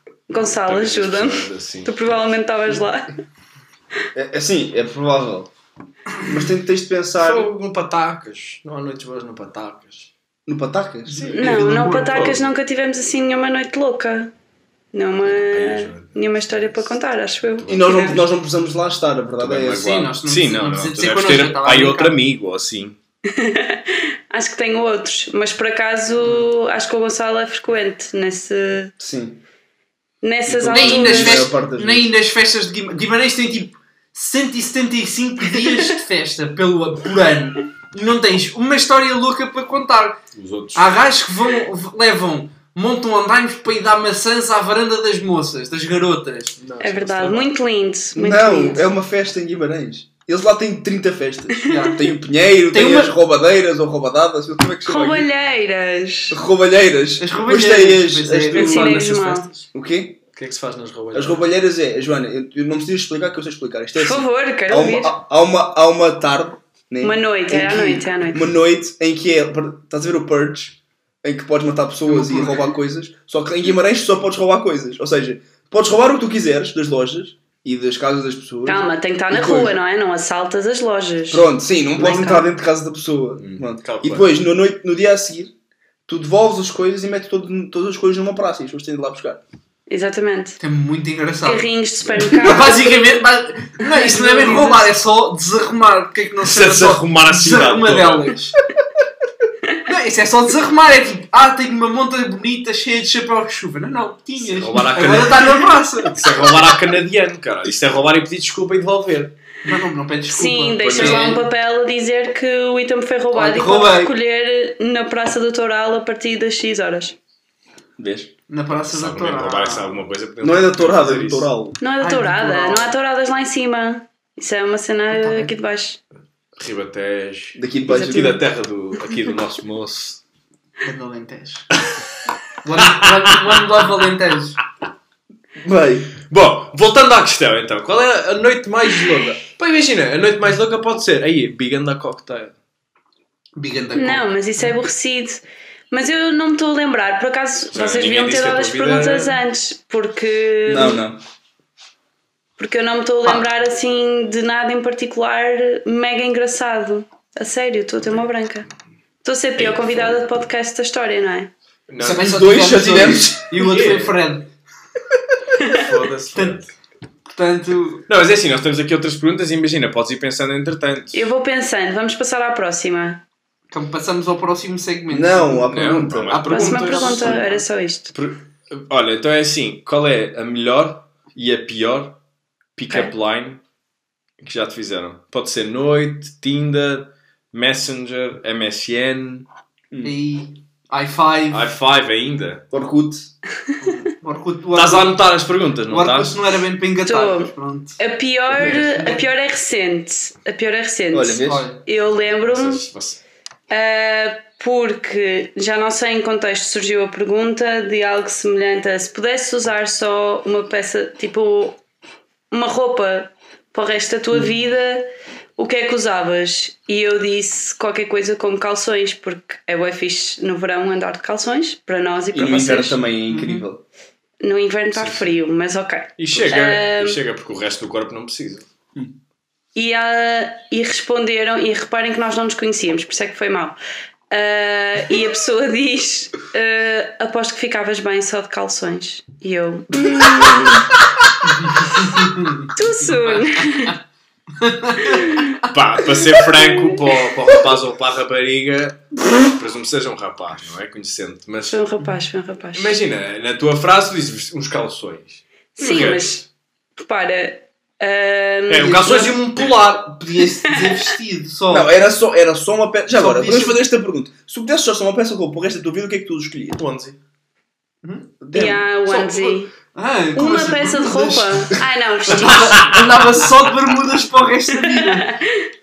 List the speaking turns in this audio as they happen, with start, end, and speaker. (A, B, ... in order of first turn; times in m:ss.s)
0:00.3-0:03.1 A
0:00.4-0:02.0 B
0:04.2-0:05.5 C
0:06.2-0:07.5 C
0:07.2-0:10.1 B
0:10.5-0:11.3 C
0:11.1-0:12.2 D
0:11.1-0:12.5 B
0:11.4-0:14.3 A
0:14.9-0:18.2 A
0:15.2-0:16.9 B
0:17.6-0:18.0 B
0:17.6-0:20.1 C
0:19.4-0:23.0 B
0:19.7-0:22.2 D
0:23.3-0:28.9 A
0:29.0-0:29.4 C
0:30.2-0:31.5 A
0:30.5-0:32.1 C
0:30.7-0:40.2 D
0:40.4-0:40.9 B
0:40.8-0:46.6 D
0:46.6-0:47.5 B
0:46.8-0:48.9 A
0:48.1-0:55.3 C
0:51.6-0:51.9 A
0:51.7-0:52.1 D
0:52.7-0:53.1 D
0:54.8-0:56.4 A
0:56.3-0:59.0 C
0:57.2-0:59.0 D
0:58.6-0:59.5 A
0:58.6-0:59.7 B
0:59.7-1:00.2 C
1:00.4-1:01.4 B
1:01.1-1:19.8 C
1:04.0-1:05.2 A
1:07.0-1:08.5 A
1:12.1-1:12.8 D
1:18.7-1:22.5 A
1:21.3-1:25.5 C
1:23.4-1:24.3 B
1:26.1-1:29.4 C
1:29.9-1:30.6 A
1:30.6-1:31.7 D
1:31.4-1:33.2 A
1:32.0-1:32.4 B
1:32.3-1:38.6 D
1:33.8-1:34.9 A
1:36.4-1:38.4 B
1:39.9-1:46.2 D
1:44.4-1:49.4 B
1:49.6-1:51.4 D
1:50.3-1:57.2 A
1:50.8-1:51.3 B
1:53.3-1:54.1 D
1:58.0-1:58.3 C
1:58.5-2:00.0 D
1:58.9-2:01.5 B
2:00.4-2:01.8 C
2:01.8-2:06.0 A
2:02.0-2:02.9 D
2:05.1-2:05.5 D
2:06.6-2:10.2 B
2:07.6-2:08.4 C
2:07.9-2:08.4 A
2:10.8-2:11.7 D
2:12.6-2:14.6 D
2:12.8-2:13.6 B
2:15.6-2:16.1 C
2:16.3-2:22.6 B
2:23.6-2:24.6 D
2:24.0-2:31.0 A
2:27.7-2:29.4 B
2:30.7-2:31.2 C
2:32.6-2:38.7 A
2:39.2-2:41.5 A
2:39.6-2:40.2 B
2:41.9-2:42.4 B
2:42.0-2:44.5 D
2:42.2-2:43.6 C
2:43.6-2:44.2 B
2:45.6-2:46.7 B
2:46.3-2:46.6 D
2:47.3-2:48.1 D
2:48.1-2:51.3 B
2:51.1-2:53.2 A
2:53.7-2:55.8 D
2:55.1-2:56.5 C
2:55.7-2:57.4 B
2:56.4-2:57.6 D
2:56.5-2:58.1 A
2:58.1-3:02.2 B
3:02.8-3:03.6 B
3:04.4-3:09.5 B
3:10.0-3:11.7 D
3:11.5-3:12.7 B
3:12.7-3:13.3 C
3:13.8-3:15.2 D
3:14.8-3:16.4 B
3:15.9-3:18.0 D
3:17.1-3:22.8 A
3:18.6-3:18.8 C
3:18.6-3:19.3 D
3:21.1-3:21.7 C
3:21.4-3:21.8 D
3:22.4-3:23.2 B
3:23.7-3:31.8 A
3:32.5-3:43.0 A
3:42.3-3:43.8 C
3:43.3-3:43.7 D
3:44.4-3:47.2 A
3:44.9-3:45.3 B
3:46.2-3:48.7 B
3:49.8-3:53.8 A
3:54.3-4:00.9 A
4:01.6-4:03.9 D
4:02.7-4:04.0 A
4:04.6-4:05.4 D
4:05.0-4:05.6 A
4:05.6-4:11.8 B
4:11.7-4:13.0 A
4:12.8-4:16.4 B
4:15.8-4:16.5 A
4:17.0-4:19.4 A
4:18.7-4:20.2 B
4:20.0-4:21.9 D
4:20.6-4:21.0 A
4:21.7-4:26.8 C
4:23.1-4:23.8 D
4:26.8-4:27.2 B
4:28.0-4:28.4 D
4:28.4-4:28.9 C
4:28.5-4:29.7 A
4:29.1-4:35.4 D
4:30.4-4:32.9 A
4:32.4-4:33.2 B
4:34.8-4:35.7 A